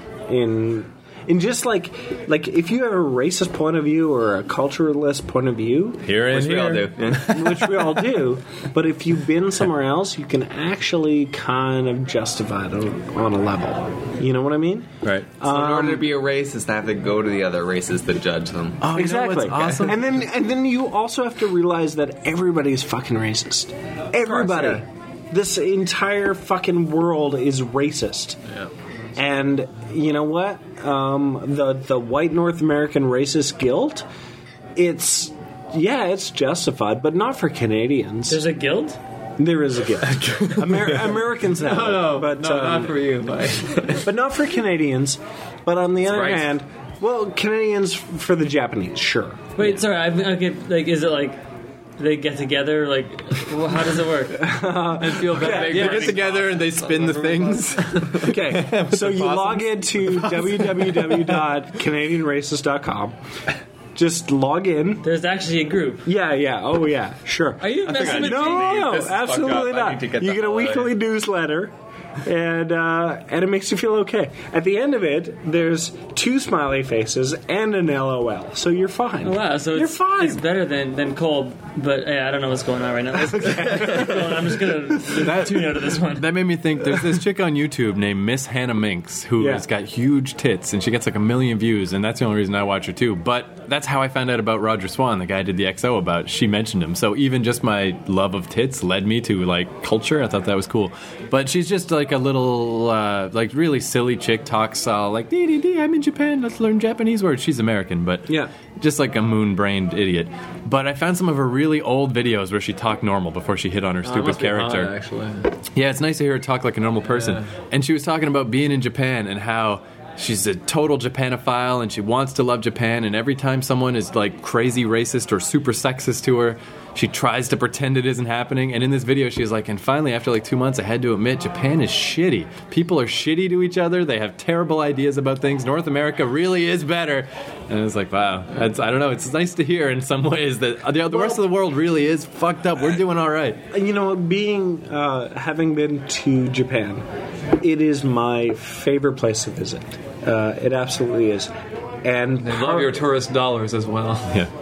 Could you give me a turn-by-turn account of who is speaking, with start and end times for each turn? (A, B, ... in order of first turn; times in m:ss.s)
0:00.3-0:06.1 A
0:06.0-0:08.2 B
0:06.3-0:07.4 C
0:07.1-0:16.1 A
0:15.0-0:15.3 B
0:15.4-0:18.8 C
0:18.8-0:20.0 B
0:18.9-0:28.4 A
0:24.2-0:24.8 C
0:29.2-0:34.0 A
0:34.8-0:38.4 A
0:38.3-0:39.0 D
0:39.4-0:43.0 A
0:40.2-0:40.9 B
0:41.5-0:44.0 E
0:44.0-0:49.8 A
0:46.0-0:46.5 C
0:49.6-0:51.4 D
0:52.0-0:54.6 D
0:54.3-0:56.1 A
0:55.0-0:58.2 E
0:55.5-1:01.4 B
0:56.2-0:56.6 C
0:58.2-1:03.1 A
1:03.9-1:05.0 A
1:05.0-1:06.0 D
1:06.0-1:11.7 A
1:07.6-1:09.0 D
1:07.8-1:10.9 C
1:12.2-1:20.4 A
1:19.2-1:26.3 D
1:23.2-1:24.3 A
1:25.1-1:54.9 B
1:29.4-1:29.6 A
1:54.0-1:55.5 E
1:55.7-2:23.6 B
1:57.1-1:57.4 E
2:21.1-2:21.4 A
2:23.7-2:27.0 A
2:27.6-2:31.5 A
2:32.0-2:33.0 A
2:32.4-2:34.4 E